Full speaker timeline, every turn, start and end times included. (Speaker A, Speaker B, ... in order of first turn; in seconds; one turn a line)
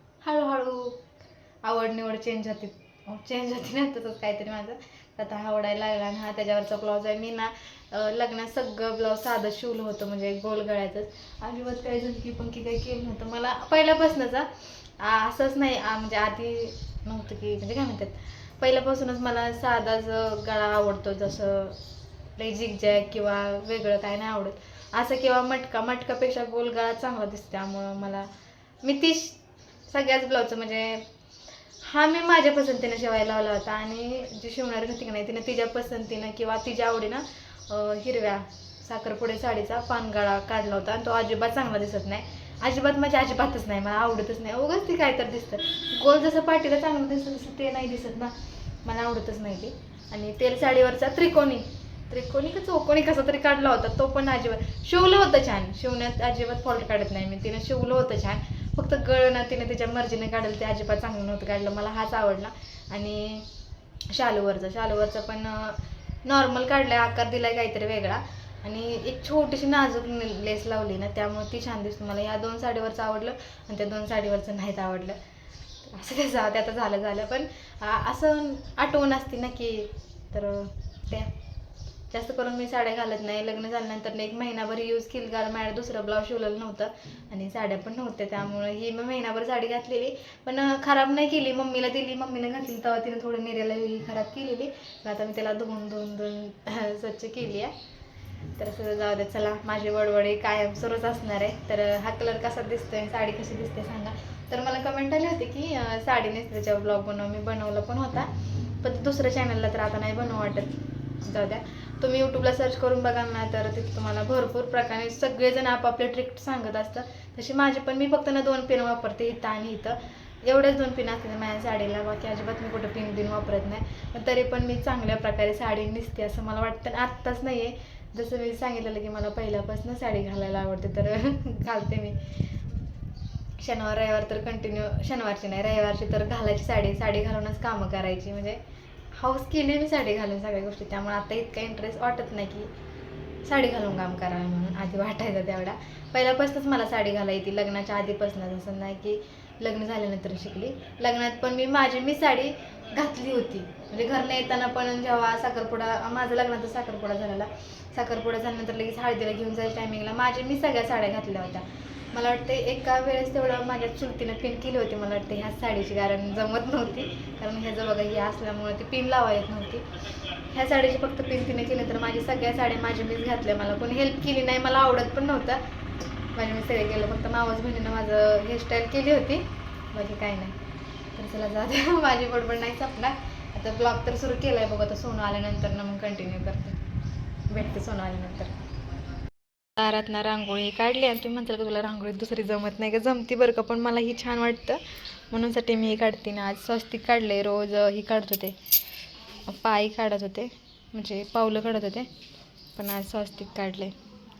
Speaker A: 0.2-1.0
Speaker A: 1.6-21.8
Speaker A: 22.4-28.2
Speaker A: 28.8-31.0
Speaker A: 31.8-48.3
Speaker A: 48.8-63.5
Speaker A: 64.1-75.2
Speaker A: 75.8-81.3
Speaker A: 82.1-97.7
Speaker A: 98.6-108.3
Speaker A: 108.8-132.2
Speaker A: 133.6-138.6
Speaker A: 139.2-142.7
Speaker A: 143.4-169.8
Speaker A: 170.5-175.6
Speaker A: 176.3-180.6
Speaker A: 181.1-186.8
Speaker A: 187.5-188.5
Speaker A: 189.8-198.6
Speaker A: 199.4-202.1
Speaker A: 202.7-203.9